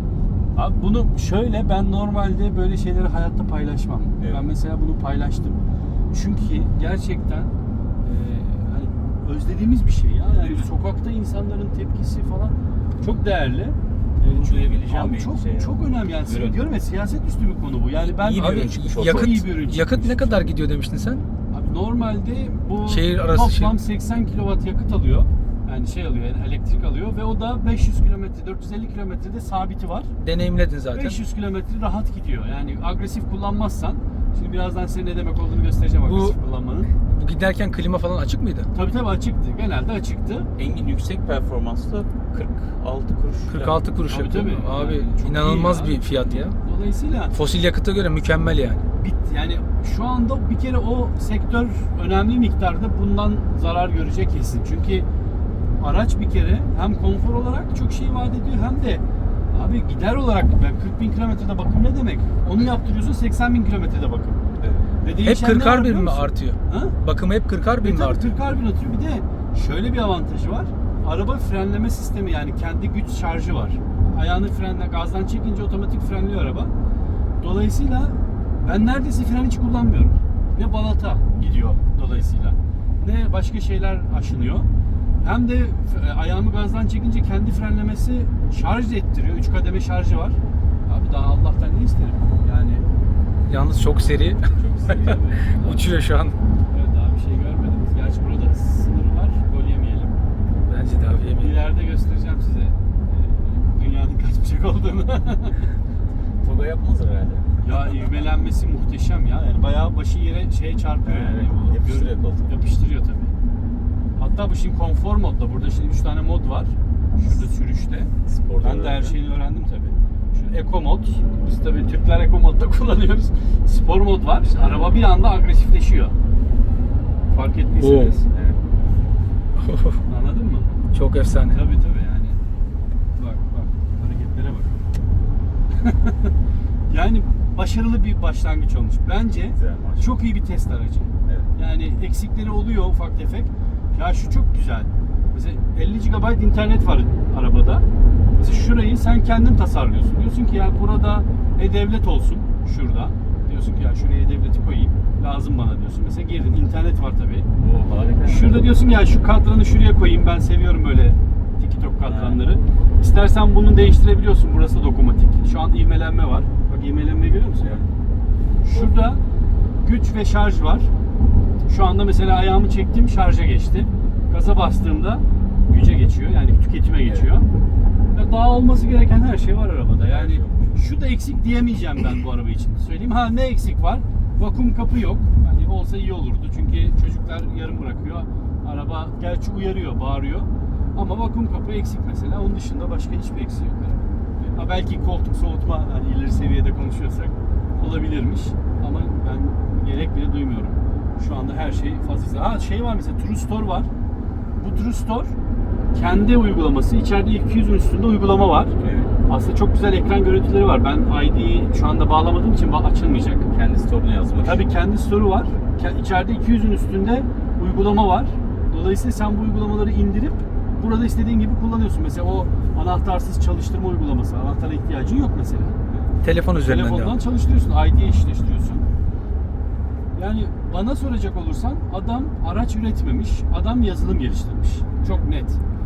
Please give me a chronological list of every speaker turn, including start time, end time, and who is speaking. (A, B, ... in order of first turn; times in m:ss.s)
0:00.6-0:05.6 A
0:04.2-0:04.4 B
0:06.1-0:20.4 A
0:14.2-0:16.6 B
0:18.1-0:19.4 B
0:18.3-0:21.3 C
0:21.5-0:30.1 A
0:22.9-0:23.7 C
0:30.2-0:31.2 C
0:30.9-0:36.9 A
0:36.1-0:36.4 C
0:37.1-0:38.7 C
0:38.7-0:40.5 A
0:40.6-0:43.8 B
0:43.5-0:46.6 C
0:44.1-0:47.4 A
0:47.3-0:48.8 C
0:49.0-0:55.1 A
0:55.8-1:04.4 A
1:04.6-1:04.9 B
1:05.0-1:07.0 A
1:05.2-1:08.3 C
1:07.8-1:16.7 A
1:17.4-1:24.7 A
1:25.2-1:32.9 A
1:33.5-1:36.4 C
1:34.5-1:36.0 A
1:36.7-1:40.2 A
1:40.7-1:41.7 C
1:41.3-1:45.7 A
1:46.4-1:48.0 B
1:47.6-1:53.3 A
1:51.0-1:52.5 B
1:54.2-2:06.2 A
1:58.2-1:59.2 B
2:07.3-2:08.3 A
2:07.8-2:08.1 C
2:08.3-2:08.6 B
2:09.6-2:10.0 C
2:10.1-2:10.7 A
2:10.9-2:11.6 C
2:11.4-2:12.4 A
2:13.2-2:14.8 A
2:15.7-2:16.4 A
2:16.9-2:27.9 A
2:19.2-2:20.2 B
2:21.2-2:21.5 B
2:28.4-2:37.5 A
2:37.6-2:38.8 B
2:38.2-2:47.8 A
2:42.0-2:42.4 B
2:47.6-2:47.9 B
2:48.6-2:49.2 A
2:48.7-2:49.0 B
2:49.8-2:50.9 A
2:51.7-2:57.5 A
2:57.0-2:57.3 B
2:58.1-3:23.9 A
3:00.0-3:00.8 B
3:24.6-3:25.4 A
3:25.9-3:33.5 A
3:28.8-3:29.1 B
3:33.5-3:34.7 B
3:34.4-3:45.8 A
3:45.9-3:46.1 B
3:46.2-3:47.2 C
3:46.6-3:48.9 A
3:50.1-3:55.6 A